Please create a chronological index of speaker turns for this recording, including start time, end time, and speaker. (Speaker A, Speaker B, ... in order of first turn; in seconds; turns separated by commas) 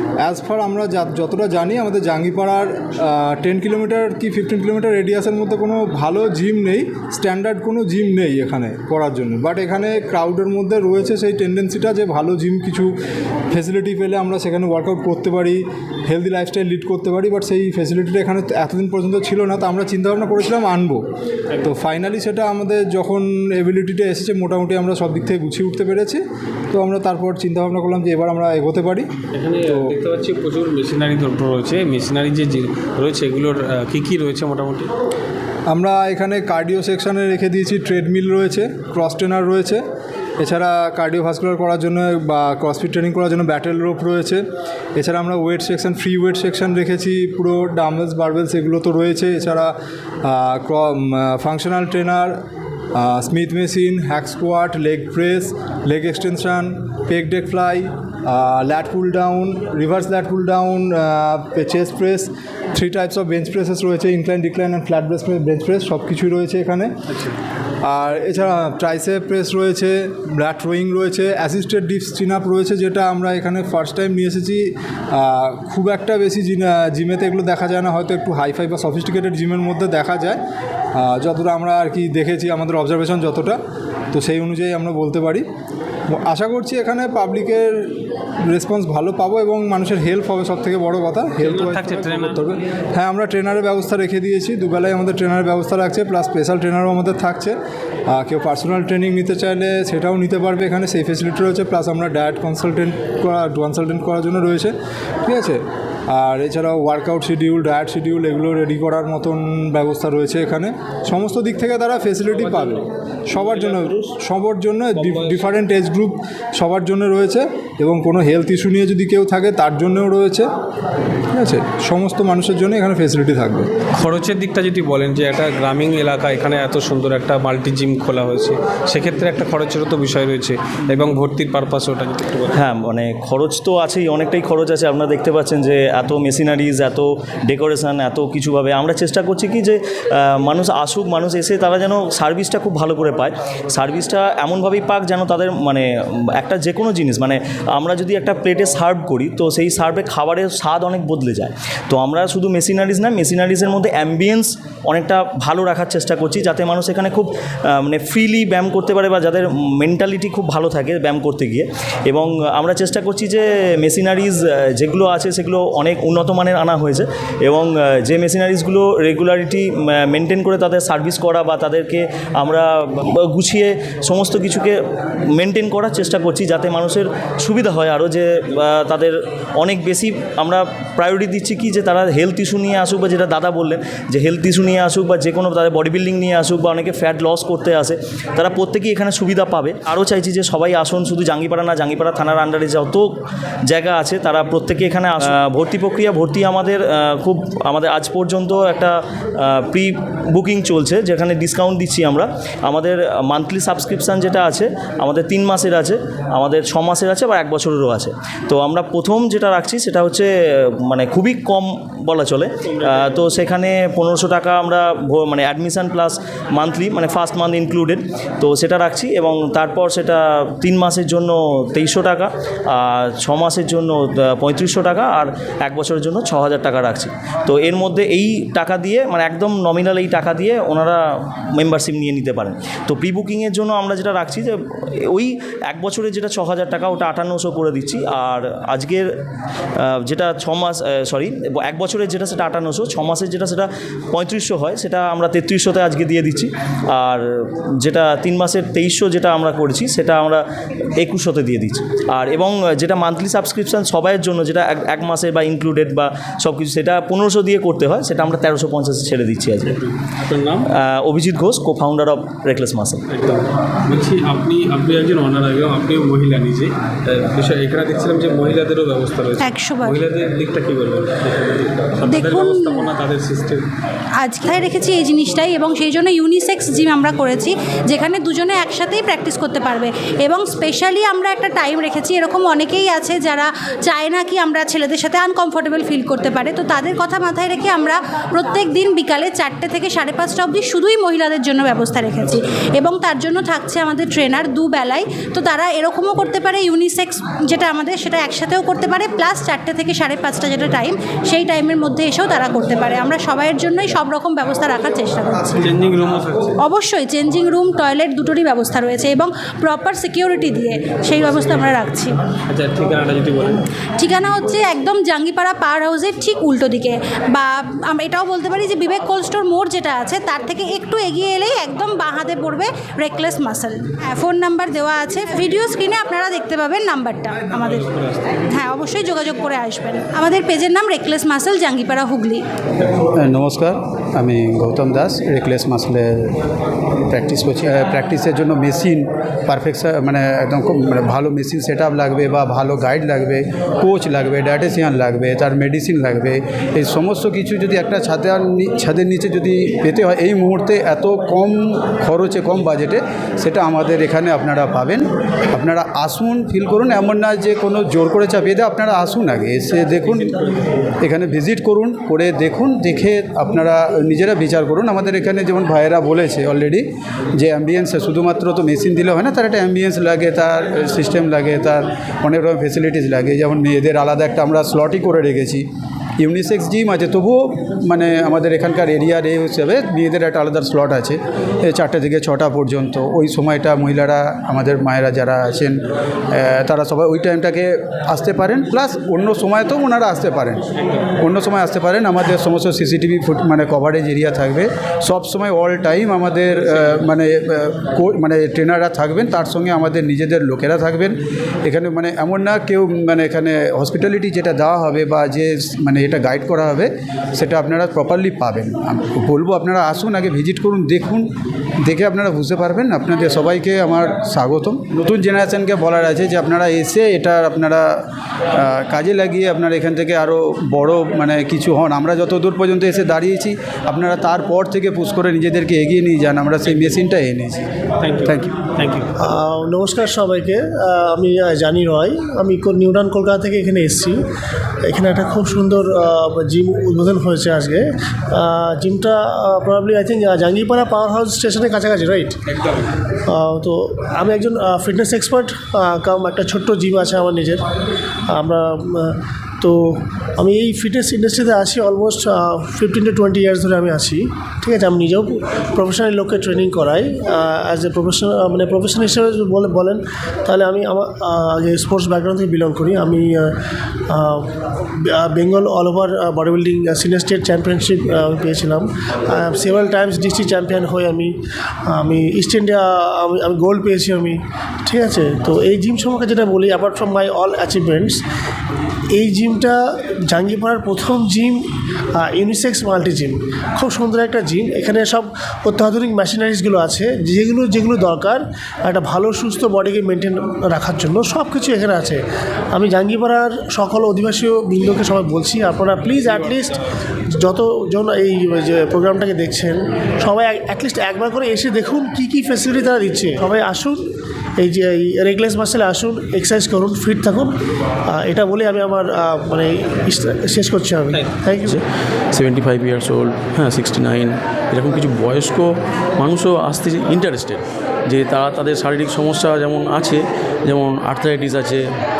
Speaker A: 0.2-12.9, Speaker A: 13.5-21.0, Speaker A: 21.6-29.1, Speaker B: 29.3-34.9, Speaker A: 29.6-29.9, Speaker A: 35.7-39.8, Speaker A: 40.4-44.4, Speaker A: 45.0-49.7, Speaker A: 50.2-52.3, Speaker A: 52.9-66.9, Speaker A: 67.8-80.4, Speaker A: 81.0-83.6, Speaker A: 84.1-85.5, Speaker A: 86.1-87.9, Speaker A: 88.5-97.5, Speaker B: 91.4-92.3, Speaker A: 98.1-104.7, Speaker A: 105.2-120.5, Speaker B: 112.5-112.8, Speaker B: 113.4-114.1, Speaker B: 115.0-115.5, Speaker A: 121.3-123.7, Speaker B: 124.0-132.6, Speaker C: 132.5-174.8, Speaker C: 175.3-193.1, Speaker C: 193.7-239.1, Speaker C: 239.8-250.4, Speaker C: 250.9-259.8, Speaker B: 259.7-260.7, Speaker C: 260.7-263.0, Speaker B: 263.1-273.6, Speaker D: 269.4-270.0, Speaker D: 272.1-272.9, Speaker D: 274.2-305.6, Speaker B: 305.6-306.6, Speaker D: 306.6-312.2, Speaker B: 312.5-313.6, Speaker D: 314.0-332.4, Speaker E: 333.1-336.3, Speaker E: 337.1-360.4, Speaker E: 361.0-366.8, Speaker E: 367.4-375.6, Speaker E: 376.2-385.8, Speaker E: 386.3-390.6, Speaker E: 391.2-411.3, Speaker E: 411.9-417.9, Speaker E: 418.5-427.6, Speaker B: 428.0-429.1, Speaker F: 429.2-434.2, Speaker F: 434.9-442.4, Speaker F: 443.3-447.6, Speaker F: 448.3-463.5, Speaker F: 464.1-464.5, Speaker F: 465.1-471.3, Speaker F: 471.9-478.2, Speaker F: 479.1-481.6, Speaker F: 482.1-492.2, Speaker F: 492.7-496.8, Speaker F: 497.3-504.0, Speaker F: 504.6-507.5, Speaker F: 508.1-511.8, Speaker G: 512.3-521.9